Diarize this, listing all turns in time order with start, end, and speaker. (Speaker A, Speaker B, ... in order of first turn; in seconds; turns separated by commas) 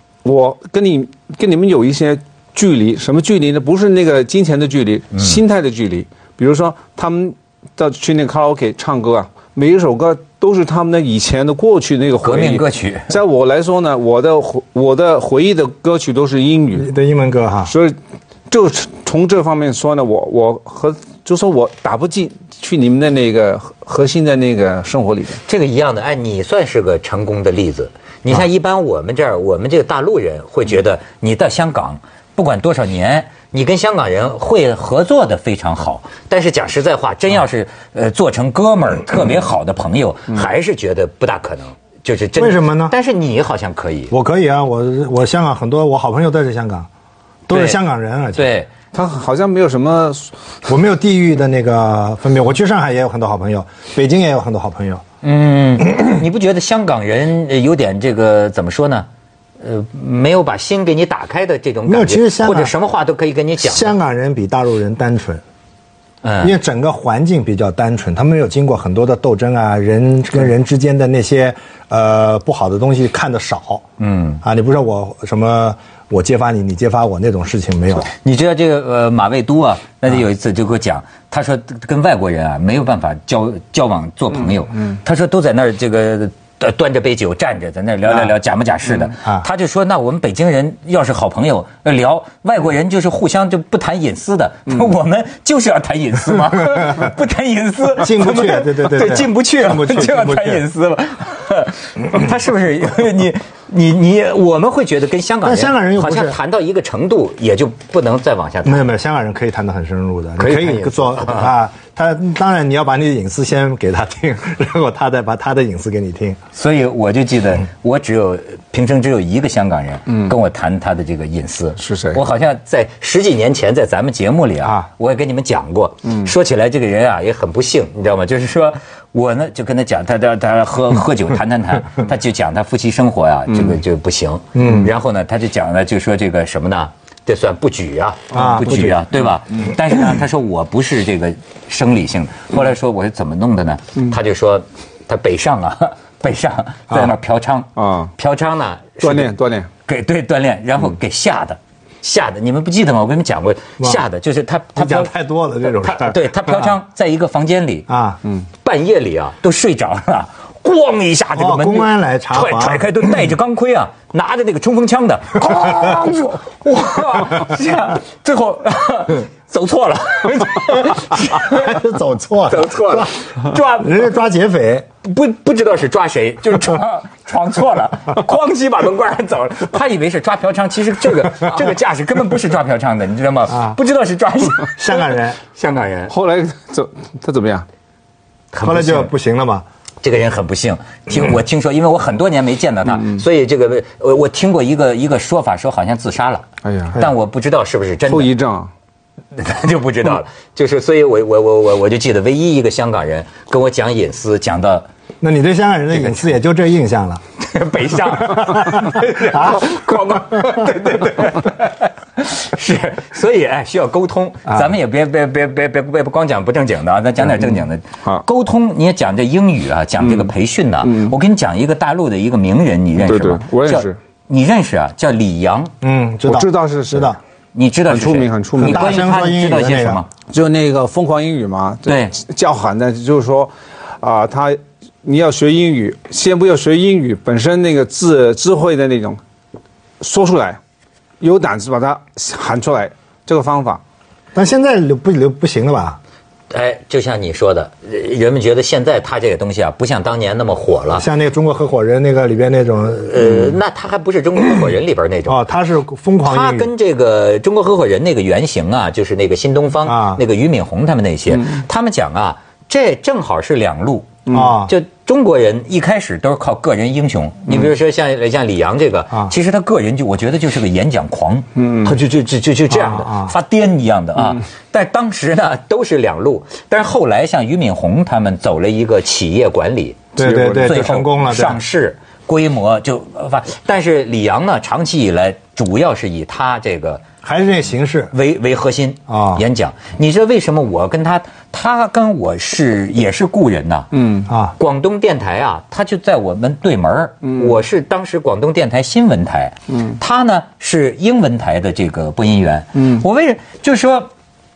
Speaker A: 0.2-16.9, Speaker B: 12.2-13.1, Speaker C: 16.8-17.7, Speaker A: 17.7-17.9, Speaker A: 18.5-25.4, Speaker B: 25.4-44.1, Speaker C: 42.4-42.9, Speaker C: 44.1-46.9, Speaker B: 47.5-47.8, Speaker C: 47.5-48.5, Speaker B: 48.3-48.7, Speaker A: 48.9-50.3, Speaker C: 50.7-55.0, Speaker B: 55.2-59.1, Speaker B: 59.6-63.9, Speaker C: 61.9-62.7, Speaker C: 63.6-65.4, Speaker B: 66.2-66.5, Speaker C: 66.4-73.8, Speaker B: 74.0-74.4, Speaker C: 74.4-78.1, Speaker B: 78.0-108.9, Speaker C: 98.0-100.6, Speaker C: 105.4-106.4, Speaker C: 108.6-116.4, Speaker B: 110.4-111.5, Speaker B: 116.5-149.3, Speaker A: 121.8-122.2, Speaker A: 133.5-133.8, Speaker C: 134.5-134.9, Speaker A: 138.3-138.9, Speaker C: 138.3-139.0, Speaker A: 147.8-148.1, Speaker A: 149.0-149.7, Speaker B: 149.8-157.9, Speaker C: 154.8-156.7, Speaker C: 157.9-158.2, Speaker B: 158.6-171.8, Speaker C: 161.3-162.9, Speaker C: 171.4-174.8, Speaker B: 172.5-174.1, Speaker B: 175.0-186.1, Speaker C: 183.5-183.8, Speaker C: 184.8-185.4, Speaker A: 186.1-187.7, Speaker B: 188.5-189.1, Speaker C: 188.6-189.6, Speaker B: 190.0-198.3, Speaker A: 196.6-197.0, Speaker A: 198.1-198.7, Speaker B: 199.3-204.9, Speaker C: 205.2-207.2, Speaker B: 205.9-206.3, Speaker B: 207.4-225.7, Speaker C: 208.2-209.7, Speaker A: 220.0-220.3, Speaker A: 220.8-221.1, Speaker A: 223.0-223.9, Speaker C: 225.8-227.2, Speaker A: 226.2-227.2, Speaker B: 227.5-230.1, Speaker A: 227.9-229.0, Speaker C: 228.6-230.0, Speaker A: 230.3-239.2, Speaker B: 231.8-232.1, Speaker A: 240.0-240.6, Speaker A: 241.2-243.8, Speaker C: 244.3-246.0, Speaker B: 246.5-251.1, Speaker C: 250.9-253.4, Speaker B: 253.1-255.4, Speaker C: 255.3-256.7, Speaker B: 256.2-287.0, Speaker C: 259.8-260.2, Speaker A: 261.3-261.6, Speaker A: 264.3-264.6, Speaker C: 264.3-264.7, Speaker A: 271.6-271.9, Speaker C: 272.7-273.3, Speaker C: 280.1-281.6, Speaker A: 280.2-280.9, Speaker C: 287.2-288.1, Speaker B: 288.1-293.9, Speaker C: 289.1-289.4, Speaker A: 293.9-294.3, Speaker C: 294.3-294.5, Speaker B: 294.6-304.1, Speaker A: 297.2-297.5, Speaker A: 302.8-303.0